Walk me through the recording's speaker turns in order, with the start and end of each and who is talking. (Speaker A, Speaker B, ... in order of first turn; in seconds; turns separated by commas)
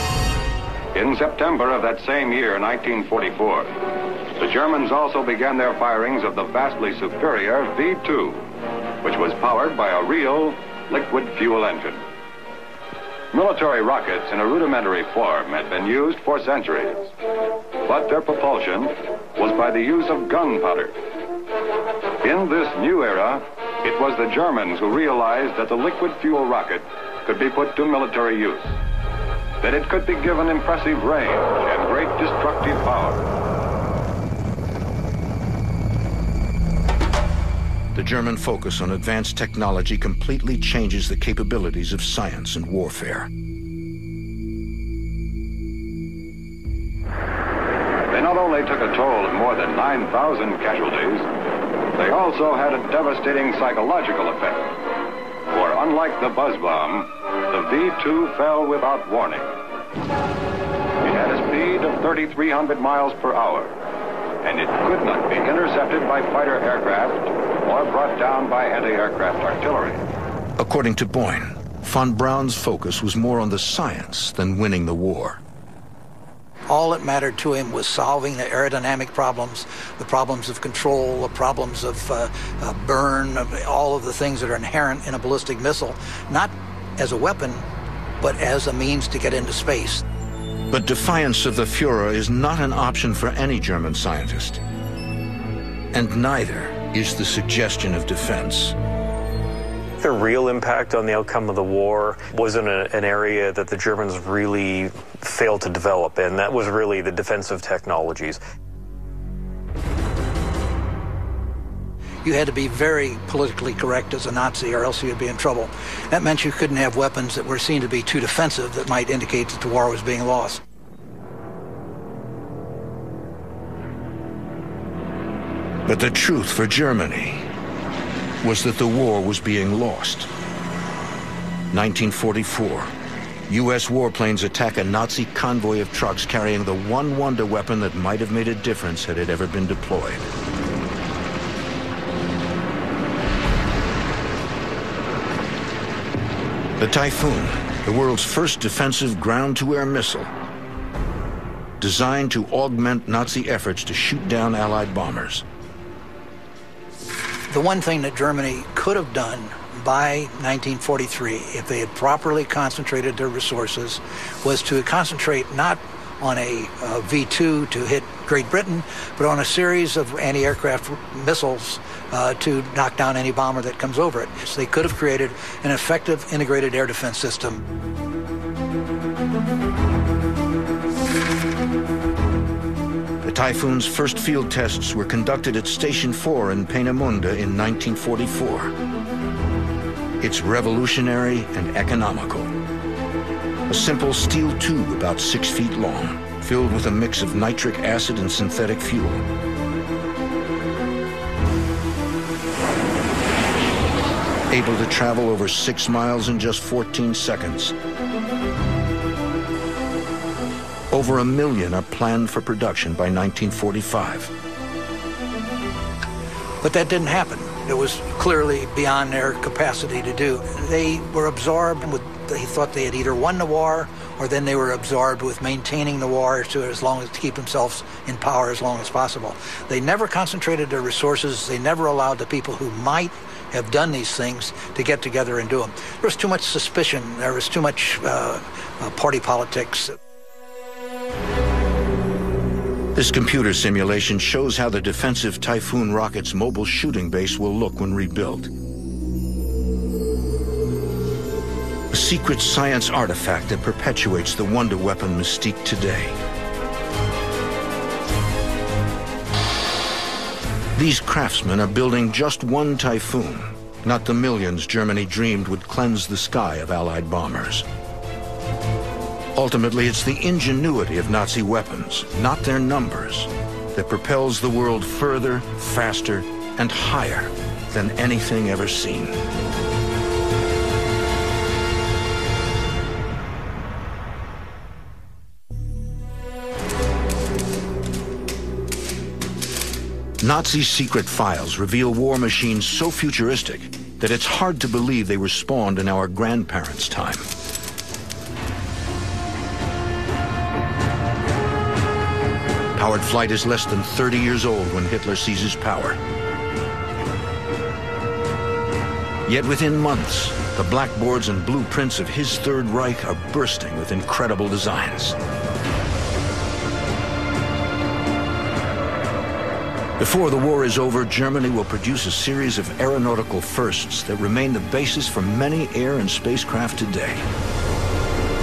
Speaker A: 0.9-3.8, Speaker A: 4.4-8.5, Speaker A: 9.0-12.0, Speaker A: 13.3-17.1, Speaker A: 17.8-20.9, Speaker A: 22.2-28.8, Speaker A: 29.6-33.2, Speaker B: 37.9-43.3, Speaker A: 48.1-51.3, Speaker A: 52.0-54.7, Speaker A: 55.5-59.5, Speaker A: 61.0-63.7, Speaker A: 64.4-70.0, Speaker B: 70.6-75.4, Speaker C: 76.7-87.7, Speaker C: 88.2-90.0, Speaker B: 90.7-94.6, Speaker B: 95.9-98.8, Speaker D: 100.0-108.4, Speaker C: 112.2-120.6, Speaker B: 125.9-127.5, Speaker B: 128.4-130.3, Speaker B: 131.7-132.9, Speaker B: 133.5-140.3, Speaker B: 146.8-150.3, Speaker B: 151.8-155.4, Speaker C: 157.5-177.6, Speaker B: 183.2-188.7, Speaker B: 190.2-192.5, Speaker B: 193.7-199.3, Speaker B: 204.5-207.8, Speaker B: 210.9-214.3, Speaker C: 216.6-240.0, Speaker B: 242.9-248.5, Speaker B: 251.9-256.2, Speaker B: 260.8-267.7, Speaker B: 269.4-279.2, Speaker B: 290.2-297.3, Speaker B: 302.8-306.0, Speaker B: 309.2-315.2, Speaker B: 320.0-327.3